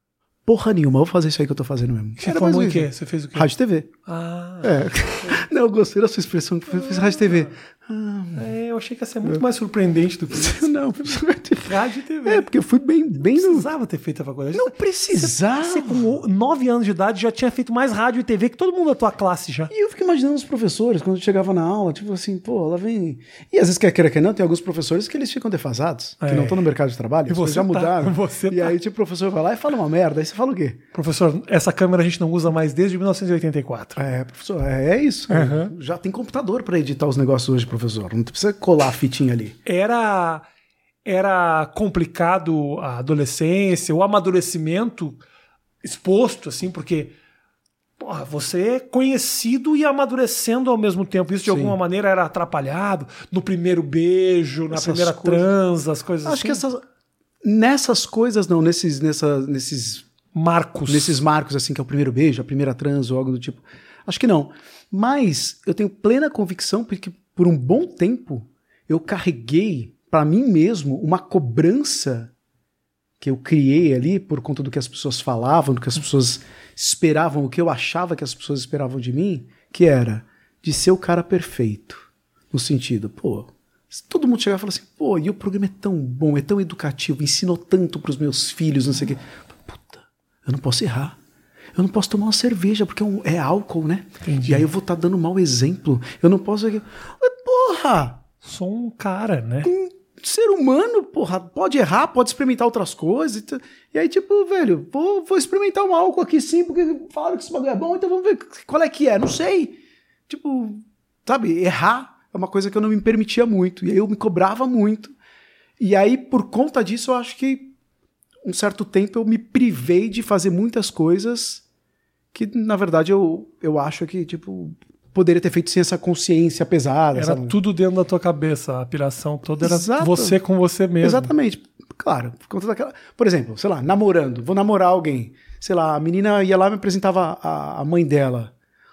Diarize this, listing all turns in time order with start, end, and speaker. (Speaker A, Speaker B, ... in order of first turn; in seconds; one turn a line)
Speaker A: 0.5-3.9
Speaker B: 2.2-3.5
Speaker B: 4.1-5.4
Speaker A: 4.6-8.5
Speaker B: 6.7-7.5
Speaker B: 8.3-10.7
Speaker A: 10.3-13.7
Speaker B: 11.7-12.5
Speaker B: 13.2-19.7
Speaker A: 14.5-16.1
Speaker A: 19.7-30.8
Speaker B: 26.2-26.6
Speaker B: 27.3-28.8
Speaker B: 30.9-34.0
Speaker A: 34.0-39.6
Speaker B: 35.3-35.7
Speaker B: 39.6-40.5
Speaker B: 41.0-45.2
Speaker B: 45.8-47.1
Speaker B: 48.0-56.6
Speaker A: 51.5-51.8
Speaker A: 54.7-55.5
Speaker A: 56.2-56.8
Speaker A: 57.4-60.1
Speaker B: 60.3-61.2
Speaker A: 60.9-72.3
Speaker A: 73.2-91.2
Speaker A: 91.8-98.2
Speaker B: 94.2-94.7
Speaker B: 98.4-99.7
Speaker A: 99.6-115.2
Speaker A: 115.8-117.7
Speaker A: 118.4-121.6
Speaker A: 122.3-127.6
Speaker B: 127.2-131.3
Speaker A: 129.6-130.4
Speaker A: 131.0-138.5